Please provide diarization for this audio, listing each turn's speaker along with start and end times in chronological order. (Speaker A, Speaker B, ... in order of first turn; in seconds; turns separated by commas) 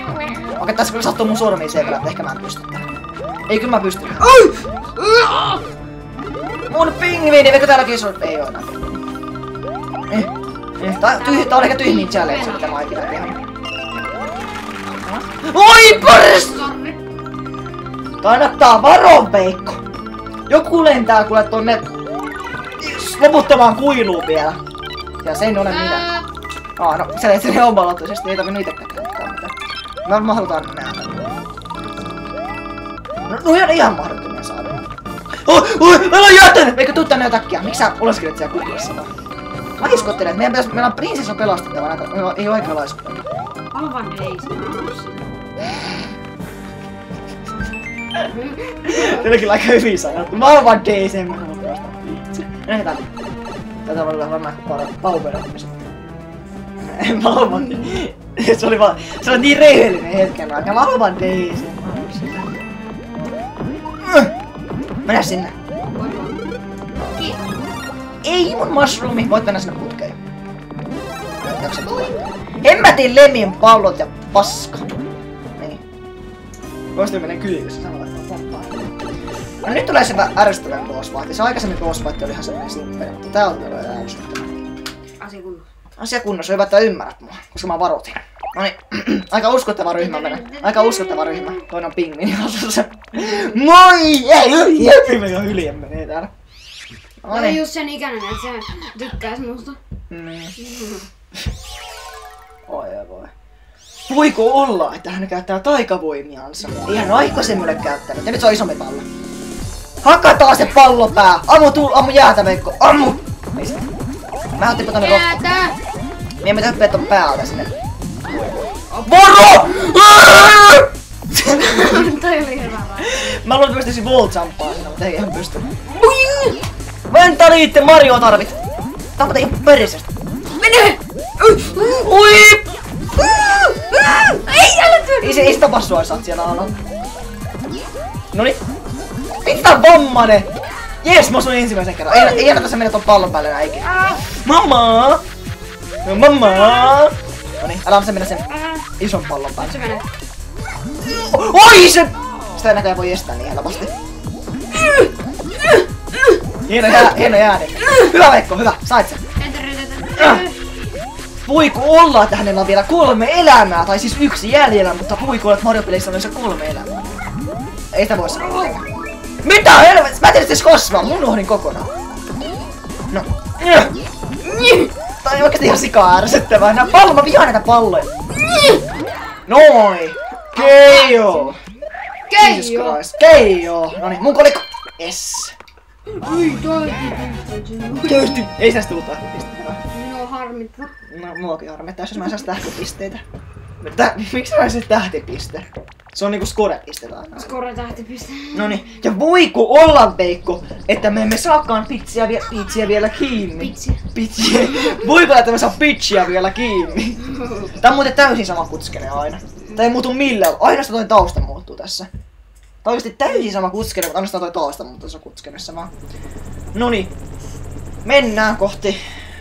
Speaker A: 0.5-2.8, Speaker A: 3.5-4.4, Speaker B: 4.2-5.6, Speaker A: 6.7-9.0, Speaker A: 10.1-13.3, Speaker B: 11.1-12.7, Speaker A: 15.0-16.6, Speaker B: 15.9-17.0, Speaker A: 18.2-19.8, Speaker A: 20.5-21.9, Speaker A: 22.8-24.6, Speaker A: 25.2-26.1, Speaker B: 25.6-26.3, Speaker A: 26.8-29.5, Speaker A: 30.0-31.3, Speaker B: 31.8-32.3, Speaker A: 33.3-34.8, Speaker A: 35.4-39.1, Speaker B: 39.8-40.3, Speaker A: 39.8-43.2, Speaker B: 43.7-45.4, Speaker B: 48.3-49.3, Speaker A: 48.8-53.1, Speaker A: 53.9-55.8, Speaker A: 56.8-62.6, Speaker A: 64.0-64.3, Speaker A: 65.0-65.5, Speaker B: 65.9-66.4, Speaker B: 67.0-67.7, Speaker A: 68.2-70.2, Speaker A: 71.4-74.9, Speaker A: 76.9-78.9, Speaker A: 79.6-84.6, Speaker B: 85.2-85.7, Speaker A: 86.0-96.3, Speaker B: 90.0-91.6, Speaker A: 97.2-97.6, Speaker B: 97.3-99.8, Speaker A: 100.1-100.5, Speaker B: 100.6-101.1, Speaker A: 102.7-103.3, Speaker A: 104.1-109.0, Speaker A: 110.0-113.9, Speaker A: 114.6-115.4, Speaker B: 114.9-115.8, Speaker A: 116.4-117.7, Speaker B: 118.9-119.7, Speaker A: 119.0-122.0, Speaker B: 121.5-123.4, Speaker A: 123.0-125.7, Speaker B: 126.0-126.6, Speaker A: 127.1-128.6, Speaker A: 129.2-130.1, Speaker B: 130.6-132.6, Speaker B: 133.3-135.7, Speaker A: 135.2-136.8, Speaker A: 138.3-138.6, Speaker A: 139.4-140.5, Speaker A: 141.0-145.2, Speaker B: 143.8-144.2, Speaker A: 146.0-149.8, Speaker B: 148.5-148.8, Speaker B: 149.6-150.1, Speaker A: 151.0-153.9, Speaker B: 154.7-155.1, Speaker A: 156.7-159.2, Speaker B: 159.4-160.6, Speaker A: 160.2-160.4, Speaker A: 161.4-167.2, Speaker A: 167.9-168.8, Speaker A: 169.4-171.9, Speaker A: 173.1-173.9, Speaker B: 174.4-174.9, Speaker A: 175.2-178.1, Speaker B: 178.4-178.8, Speaker A: 179.5-181.6, Speaker B: 180.5-181.5, Speaker B: 182.3-183.0, Speaker A: 182.3-185.5, Speaker B: 186.1-188.4, Speaker A: 188.0-189.8, Speaker B: 189.9-190.9, Speaker A: 191.1-193.2, Speaker A: 193.8-197.5, Speaker B: 197.3-199.1, Speaker A: 198.5-212.1, Speaker B: 203.6-204.0, Speaker A: 212.8-215.9, Speaker A: 216.7-217.1, Speaker A: 218.0-219.0